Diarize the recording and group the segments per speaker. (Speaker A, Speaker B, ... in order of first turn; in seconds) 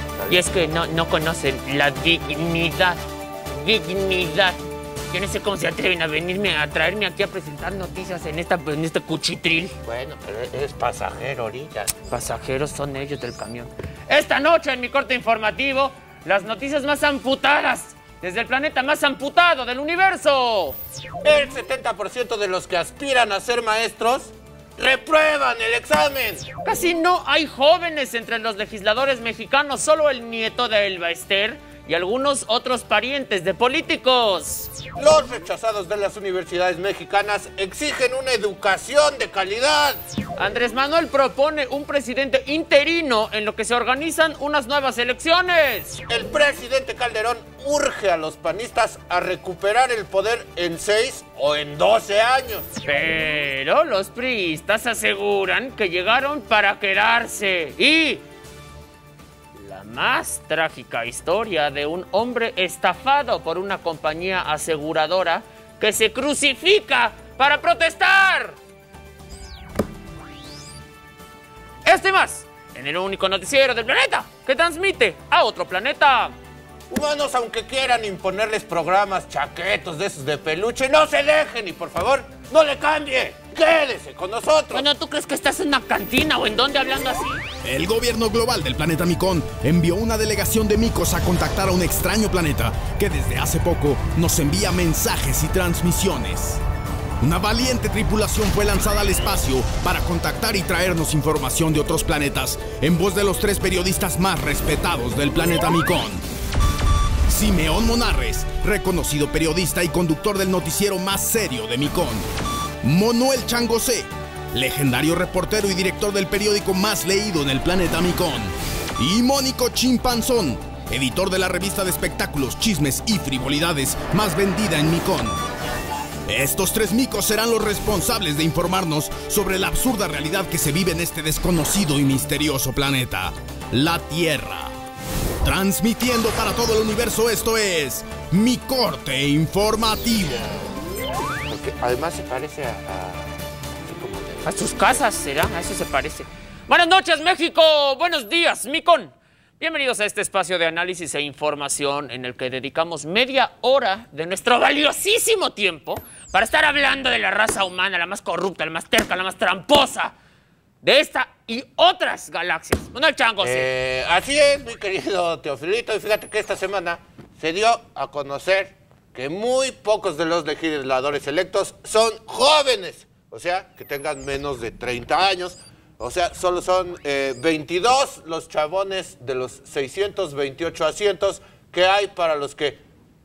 Speaker A: 0.2-0.4, 9.8-11.9, 21.2-26.5, 35.0-40.0, 46.1-52.7, 76.9-84.9, 141.5-145.0, 163.4-182.8
Speaker B: 0.3-4.6, 5.1-9.7, 12.1-20.8, 26.6-34.7, 40.4-46.0, 52.9-58.2, 59.6-68.6, 71.8-76.3, 84.7-87.4, 144.4-160.1, 160.8-163.7
Speaker C: 87.6-96.6, 97.2-106.2, 107.3-112.3, 112.8-125.4, 126.3-134.7, 135.4-140.4